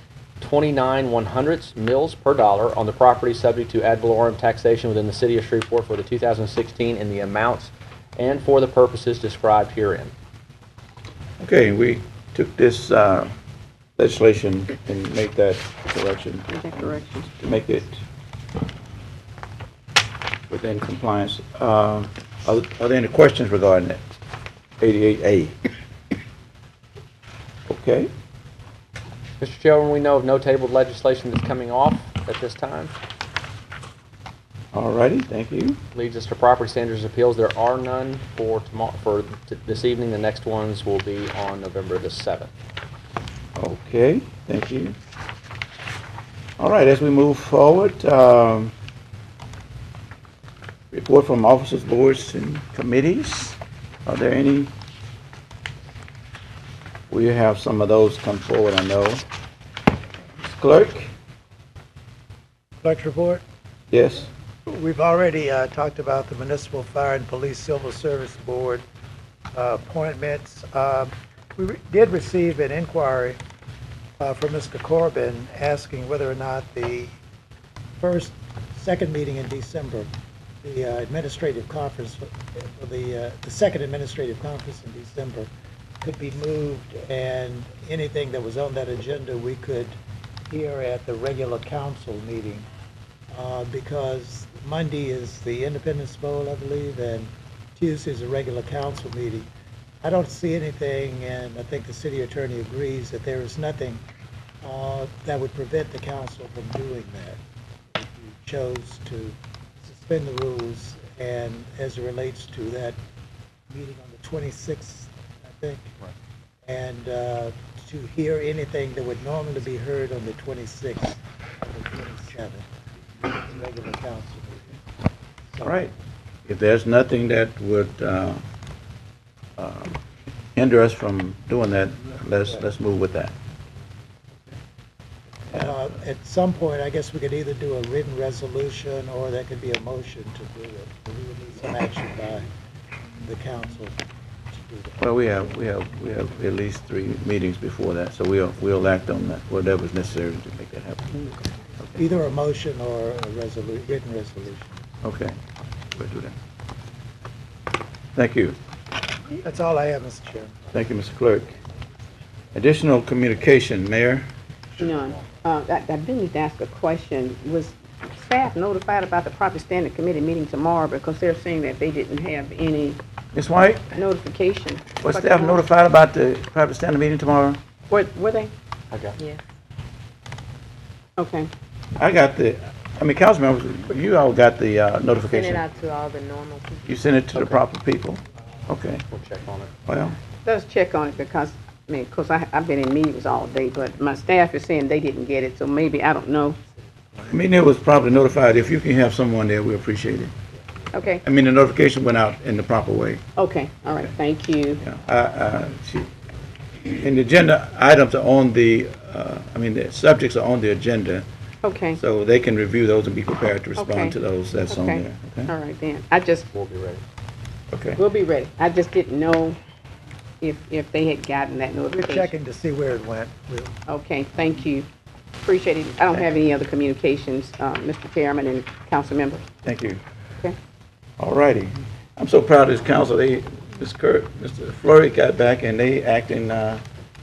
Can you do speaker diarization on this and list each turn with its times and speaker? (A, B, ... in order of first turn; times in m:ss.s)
0:00.4-0:10.1 A
0:11.4-0:13.3 B
0:14.0-0:16.5 B
0:16.5-0:17.3 C
0:17.4-0:18.0 B
0:20.5-0:24.0 B
0:24.8-0:25.6 B
0:27.7-0:28.1 B
0:29.4-0:32.9 A
0:34.7-0:35.8 B
0:35.9-0:42.5 A
0:43.6-0:45.0 B
0:46.6-0:48.7 B
0:50.9-0:54.7 B
0:57.1-0:59.2 B
1:00.4-1:01.1 B
1:02.8-1:03.4 D
1:03.9-1:04.3 B
1:04.7-1:08.8 D
1:09.5-1:13.4 D
1:14.2-1:17.1 D
1:18.0-1:20.1 D
1:20.6-1:25.5 D
1:26.0-1:30.0 D
1:30.5-1:32.7 D
1:33.3-1:39.5 D
1:40.0-1:44.0 D
1:44.6-1:47.4 D
1:47.9-1:53.0 D
1:53.7-1:55.9 D
1:56.7-2:02.7 D
2:03.2-2:04.8 D
2:05.5-2:05.8 D
2:05.6-2:05.9 B
2:06.5-2:08.4 B
2:09.6-2:10.0 B
2:10.6-2:13.3 B
2:15.5-2:22.5 D
2:23.2-2:24.0 D
2:24.5-2:25.1 D
2:25.0-2:32.0 B
2:32.0-2:34.8 D
2:35.0-2:35.4 B
2:35.9-2:36.4 B
2:38.2-2:38.6 B
2:39.4-2:40.6 D
2:40.7-2:41.6 B
2:42.5-2:44.3 B
2:44.8-2:53.0 C
2:53.3-2:54.0 B
2:53.9-2:55.6 C
2:55.0-2:57.6 B
2:57.9-2:58.5 C
2:58.9-2:59.2 A
2:59.2-2:59.4 E
3:01.2-3:01.5 C
3:02.0-3:05.8 B
3:05.3-3:06.9 E
3:06.9-3:09.0 B
3:07.4-3:07.6 A
3:09.1-3:09.7 A
3:09.9-3:10.2 B
3:10.4-3:16.6 C
3:17.3-3:20.3 B
3:20.9-3:21.2 C
3:21.2-3:23.2 B
3:23.4-3:24.8 C
3:24.8-3:26.1 B
3:26.9-3:31.3 B
3:31.6-3:32.0 C
3:31.9-3:35.5 B
3:33.8-3:34.2 C
3:34.7-3:36.5 C
3:36.5-3:37.0 A
3:37.7-3:38.0 B
3:38.0-3:39.6 C
3:40.4-3:42.3 C
3:41.9-3:43.7 D
3:43.9-3:44.9 C
3:45.4-3:49.5 C
3:49.6-3:50.0 B
3:51.2-3:56.8 B